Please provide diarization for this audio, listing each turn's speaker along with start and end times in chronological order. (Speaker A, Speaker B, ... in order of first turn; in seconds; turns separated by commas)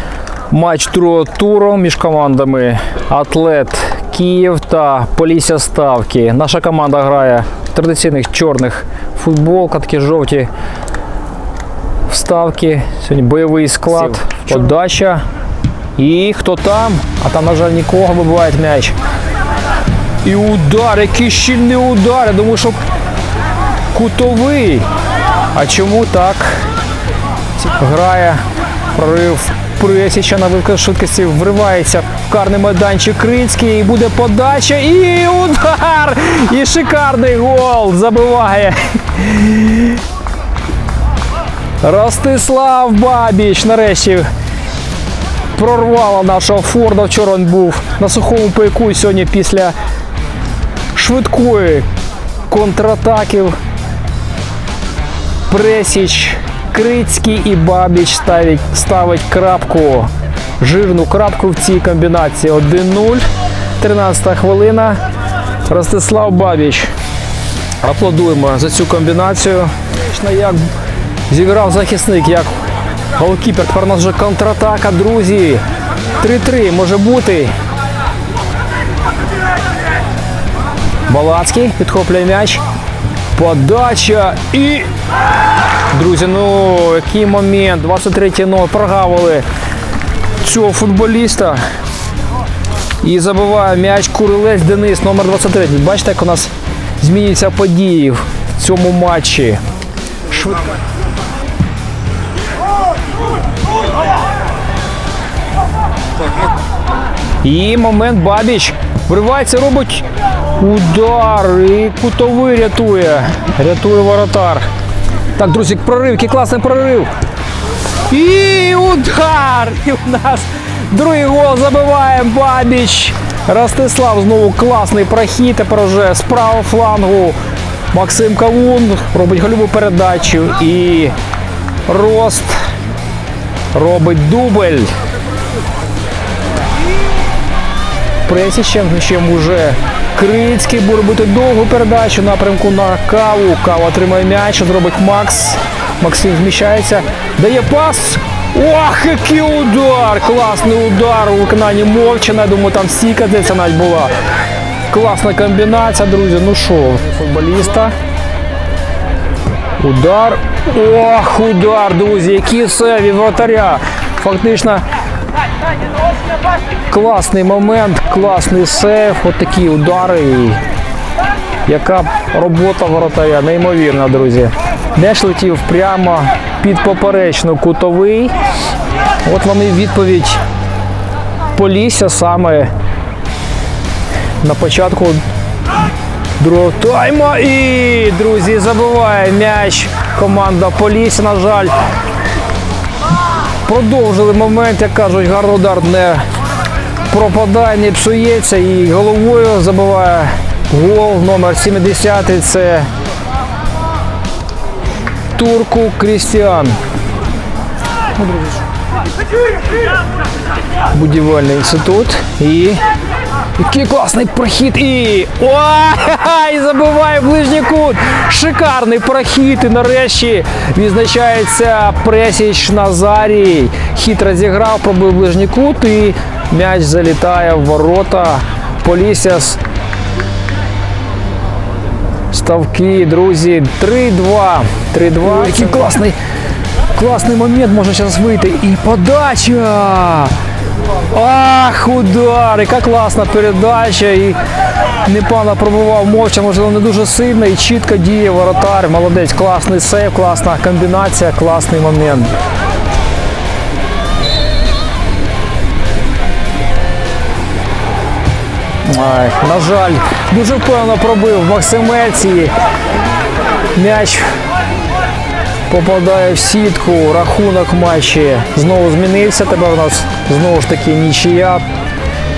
Speaker A: 0.5-10.5, Speaker A: 12.1-15.2, Speaker A: 16.0-18.9, Speaker A: 20.2-22.8, Speaker A: 23.9-24.9, Speaker A: 25.5-26.6, Speaker A: 27.6-28.4, Speaker A: 28.9-40.0, Speaker A: 41.8-44.3, Speaker A: 45.5-49.8, Speaker A: 51.0-51.9, Speaker A: 52.5-53.6, Speaker A: 55.5-63.3, Speaker A: 63.8-65.0, Speaker A: 65.7-66.9, Speaker A: 67.8-70.6, Speaker A: 71.3-72.6, Speaker A: 73.2-75.6, Speaker A: 76.2-77.5, Speaker A: 81.1-82.6, Speaker A: 83.3-84.9, Speaker A: 85.9-89.5, Speaker A: 90.4-91.6, Speaker A: 93.0-99.6, Speaker A: 100.3-100.6, Speaker A: 107.4-114.7, Speaker A: 115.4-117.1, Speaker A: 118.1-127.4, Speaker A: 127.9-131.1, Speaker A: 131.9-132.6, Speaker A: 133.7-134.9, Speaker A: 138.3-154.1, Speaker A: 154.9-157.9, Speaker A: 159.8-164.8, Speaker A: 166.9-170.6, Speaker A: 171.7-178.3, Speaker A: 179.2-180.4, Speaker A: 181.6-182.7, Speaker A: 184.4-185.2, Speaker A: 186.4-191.7, Speaker A: 193.7-196.2, Speaker A: 197.1-202.9, Speaker A: 205.3-206.8, Speaker A: 210.9-212.8, Speaker A: 213.6-229.6, Speaker A: 232.3-236.2, Speaker A: 236.9-240.3, Speaker A: 241.1-244.4, Speaker A: 245.0-252.3, Speaker A: 258.9-262.5, Speaker A: 263.8-264.3, Speaker A: 265.7-271.6